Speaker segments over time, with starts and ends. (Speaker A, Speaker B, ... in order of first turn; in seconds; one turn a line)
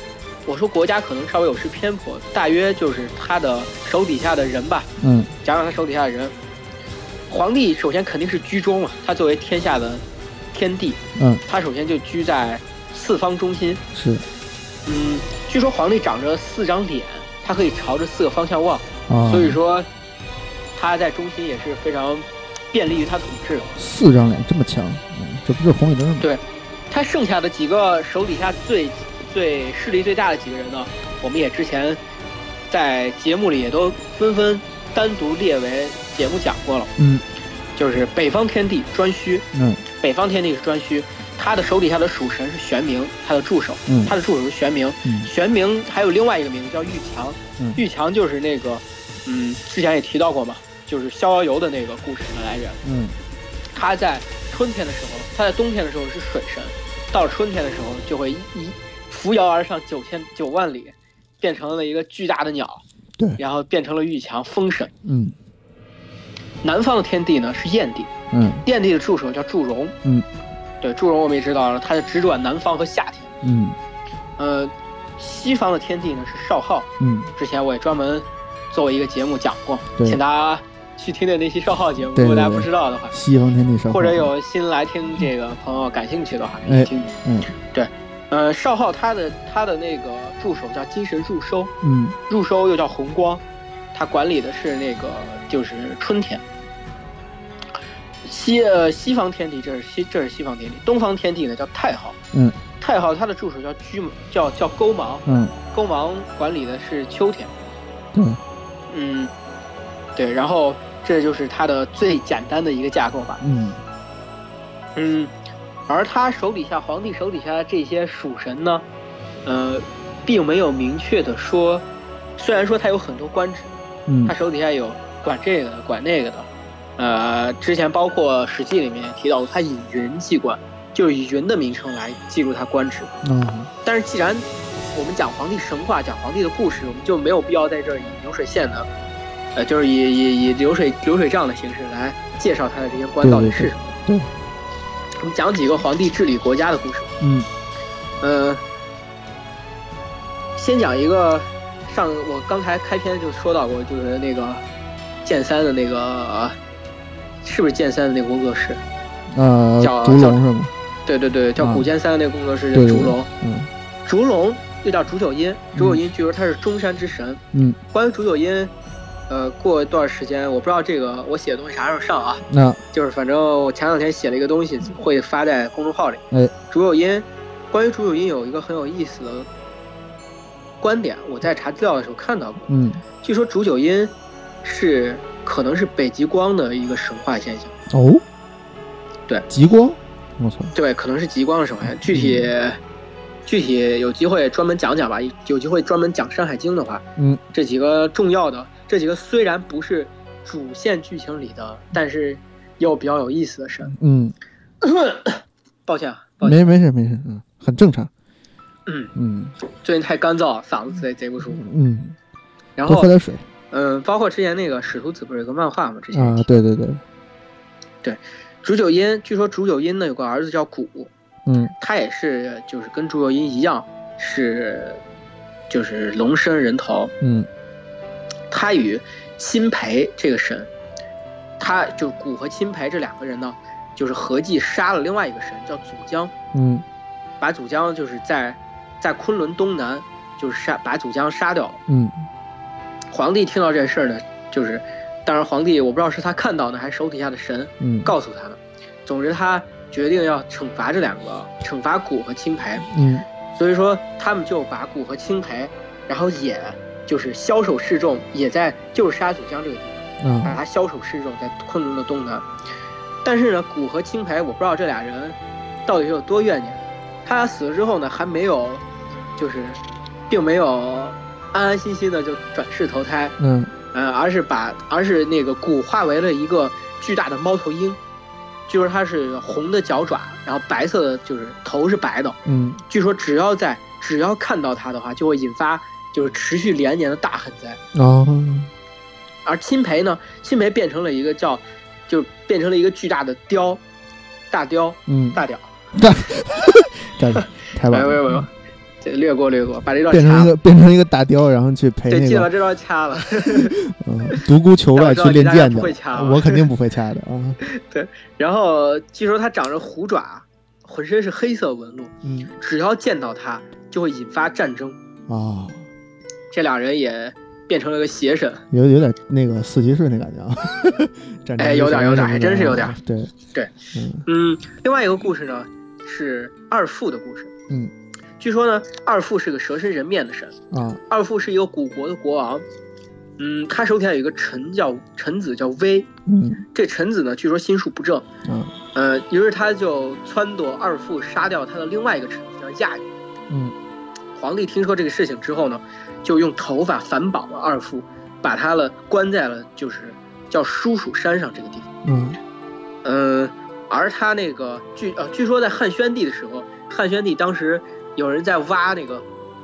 Speaker A: 0.5-4.9
Speaker B: 5.0-5.3
Speaker A: 5.4-6.3
Speaker A: 7.3-13.8
Speaker B: 11.2-11.4
Speaker B: 13.9-14.2
Speaker A: 14.8-19.9
Speaker B: 19.1-19.6
Speaker A: 20.8-23.7
Speaker B: 23.8-26.3
Speaker A: 26.2-32.0
Speaker A: 32.7-36.9
Speaker B: 37.0-37.2
Speaker A: 37.8-52.8
Speaker B: 39.5-39.8
Speaker B: 43.9-44.1
Speaker B: 45.0-45.3
Speaker B: 52.8-53.1
Speaker A: 53.7-62.8
Speaker A: 63.4-64.9
Speaker B: 65.0-65.3
Speaker A: 66.6-68.1
Speaker B: 68.3-68.6
Speaker A: 68.6-70.0
Speaker A: 70.8-73.3
Speaker B: 73.4-73.8
Speaker A: 74.4-83.1
Speaker B: 77.0-77.3
Speaker B: 82.1-84.3
Speaker A: 83.9-87.2
Speaker B: 86.7-87.5
Speaker A: 87.7-91.7
Speaker B: 91.8-92.2
Speaker A: 92.3-93.4
Speaker A: 93.9-96.4
Speaker A: 98.2-102.2
Speaker B: 102.3-102.6
Speaker A: 102.8-107.5
Speaker B: 105.2-105.5
Speaker B: 108.1-108.4
Speaker A: 108.9-109.3
Speaker A: 110.2-113.4
Speaker B: 113.4-113.8
Speaker A: 115.0-115.3
Speaker A: 115.9-118.8
Speaker A: 119.4-121.8
Speaker A: 122.4-123.7
Speaker B: 124.1-124.3
Speaker A: 124.2-133.1
Speaker B: 133.2-133.7
Speaker A: 133.8-138.9
Speaker A: 139.5-144.0
Speaker B: 143.2-144.3
Speaker A: 145.2-147.1
Speaker B: 147.2-147.5
Speaker A: 148.2-148.6
Speaker A: 150.6-154.6
Speaker A: 155.2-156.6
Speaker A: 157.4-158.8
Speaker B: 159.3-160.7
Speaker A: 159.8-160.4
Speaker A: 161.1-163.3
Speaker B: 161.6-161.9
Speaker B: 162.7-163.7
Speaker A: 164.1-168.7
Speaker B: 165.8-166.0
Speaker B: 167.5-167.8
Speaker A: 169.3-179.5
Speaker B: 172.5-172.8
Speaker A: 180.8-182.7
Speaker B: 182.7-183.0
Speaker A: 183.2-187.7
Speaker B: 187.9-188.2
Speaker B: 189.5-190.7
Speaker A: 190.7-192.8
Speaker B: 192.0-192.5
Speaker A: 193.4-203.9
Speaker B: 203.9-204.3
Speaker A: 204.8-206.7
Speaker B: 206.4-208.1
Speaker A: 208.9-209.1
Speaker B: 209.1-209.5
Speaker A: 209.8-211.6
Speaker B: 211.5-212.2
Speaker A: 212.8-213.1
Speaker B: 212.8-213.4
Speaker A: 213.7-216.5
Speaker B: 216.1-217.0
Speaker A: 218.0-221.1
Speaker B: 221.4-221.7
Speaker A: 221.8-225.0
Speaker A: 225.7-227.1
Speaker B: 227.2-227.5
Speaker A: 228.5-230.7
Speaker A: 231.6-236.3
Speaker B: 236.5-236.8
Speaker A: 237.4-241.8
Speaker B: 241.9-242.2
Speaker A: 243.1-252.9
Speaker B: 247.8-248.1
Speaker B: 252.9-253.2
Speaker A: 253.5-262.4
Speaker B: 260.2-260.6
Speaker A: 263.2-268.8
Speaker A: 269.4-273.3
Speaker B: 273.4-273.7
Speaker A: 273.9-278.0
Speaker A: 278.7-287.8
Speaker B: 282.4-282.8
Speaker B: 287.9-288.7
Speaker A: 289.4-293.8
Speaker A: 294.5-295.7
Speaker B: 295.1-295.4
Speaker B: 295.9-298.4
Speaker A: 297.4-298.5
Speaker A: 299.0-300.5
Speaker B: 300.1-302.5
Speaker A: 302.1-303.8
Speaker B: 303.4-307.6
Speaker A: 304.3-306.6
Speaker A: 307.6-315.0
Speaker B: 312.2-312.5
Speaker B: 315.3-315.9
Speaker A: 316.5-318.6
Speaker B: 318.7-323.3
Speaker A: 321.6-322.9
Speaker A: 323.5-327.5
Speaker B: 323.9-324.2
Speaker A: 328.4-330.6
Speaker B: 330.7-331.0
Speaker A: 331.1-332.6
Speaker A: 333.4-336.1
Speaker B: 336.2-336.6
Speaker A: 336.7-338.2
Speaker B: 338.4-338.7
Speaker A: 338.9-343.1
Speaker B: 343.5-343.7
Speaker A: 344.4-351.9
Speaker B: 352.0-352.4
Speaker A: 353.0-359.2